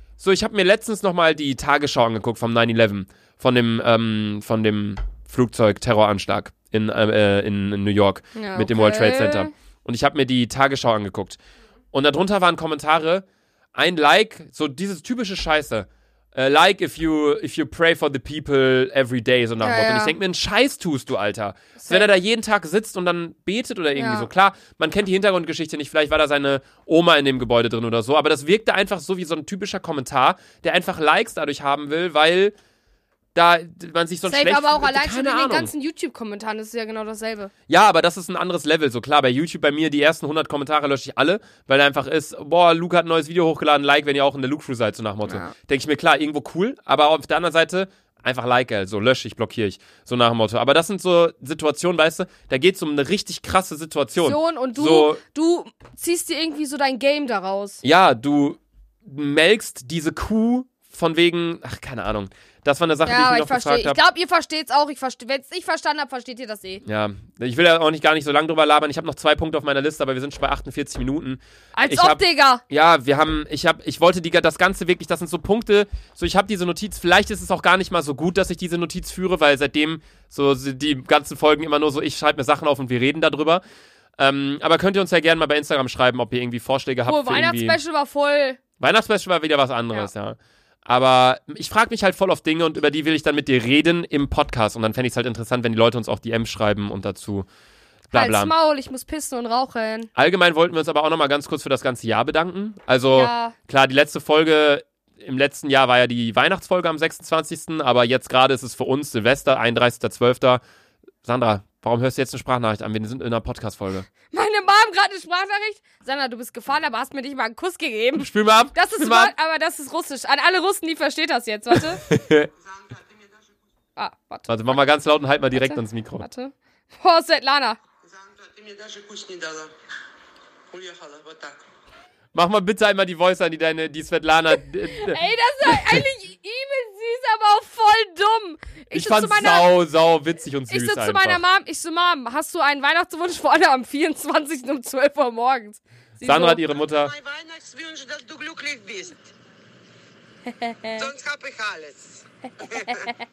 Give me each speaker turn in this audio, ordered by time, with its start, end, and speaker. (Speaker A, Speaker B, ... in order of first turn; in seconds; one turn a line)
Speaker A: 0.2-11.4
Speaker B: 8.3-9.5
Speaker A: 11.9-32.5
Speaker B: 19.6-20.1
Speaker B: 21.8-22.1
Speaker B: 24.0-24.3
Speaker A: 33.4-35.7
Speaker B: 34.3-37.5
Speaker A: 37.7-55.2
Speaker B: 45.3-45.5
Speaker B: 54.2-57.8
Speaker A: 57.8-64.0
Speaker B: 63.0-66.8
Speaker A: 66.8-83.6
Speaker B: 71.8-72.6
Speaker A: 84.2-87.8
Speaker B: 87.1-88.6
Speaker A: 88.8-97.5
Speaker A: 98.1-98.5
Speaker B: 98.1-100.1
Speaker A: 100.2-110.6
Speaker B: 103.1-103.5
Speaker A: 111.2-114.1
Speaker B: 114.3-122.0
Speaker A: 118.2-119.3
Speaker A: 121.7-122.5
Speaker C: 122.1-123.5
Speaker B: 124.0-124.8
Speaker A: 124.5-126.3
Speaker B: 125.5-127.8
Speaker C: 128.0-129.7
Speaker C: 130.7-131.6
Speaker A: 132.3-136.0
Speaker B: 134.9-139.7
Speaker A: 138.9-141.4
Speaker B: 140.7-146.6
Speaker A: 146.2-147.1
Speaker C: 146.6-149.3
Speaker B: 150.5-151.1
Speaker C: 151.0-153.1